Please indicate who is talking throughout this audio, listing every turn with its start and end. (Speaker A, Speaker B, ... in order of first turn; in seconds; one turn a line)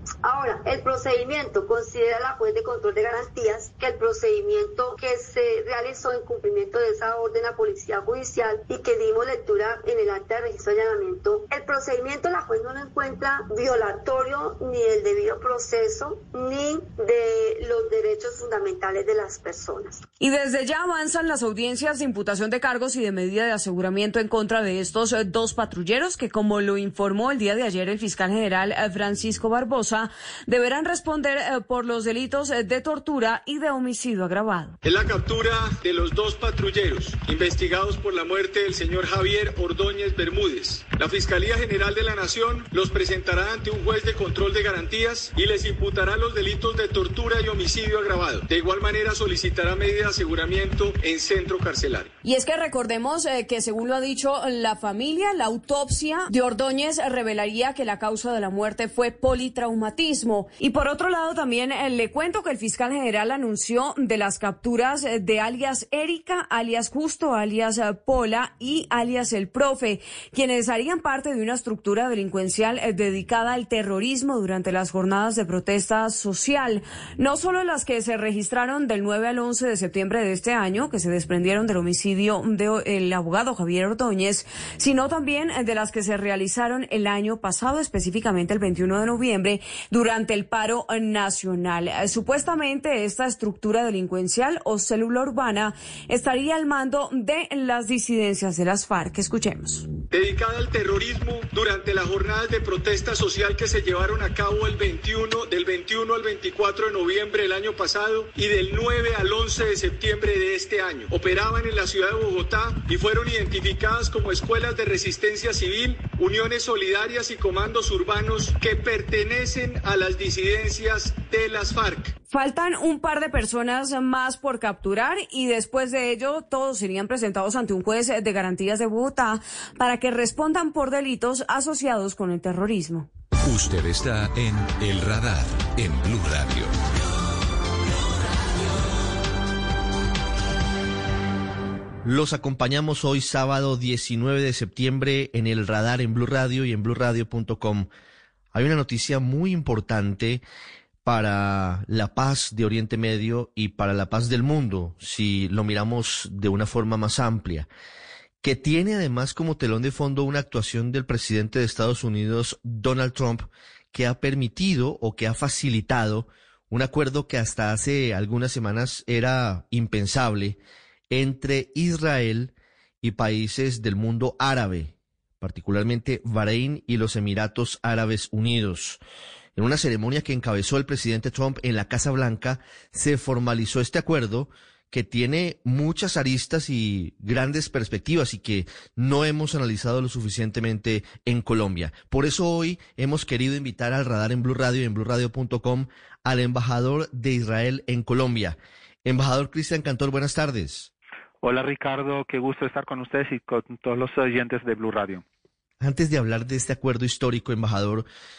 Speaker A: 0.2-20.0
Speaker B: 20.2-34.8
Speaker C: 34.8-52.1
Speaker B: 52.2-99.9
Speaker C: 100.1-122.1
Speaker B: 122.3-133.1
Speaker D: 133.4-136.7
Speaker E: 142.0-147.9
Speaker E: 148.5-150.4
Speaker E: 151.0-157.7
Speaker E: 158.4-170.6
Speaker E: 171.1-179.0
Speaker E: 179.6-200.9
Speaker F: 201.4-205.2
Speaker E: 205.8-208.1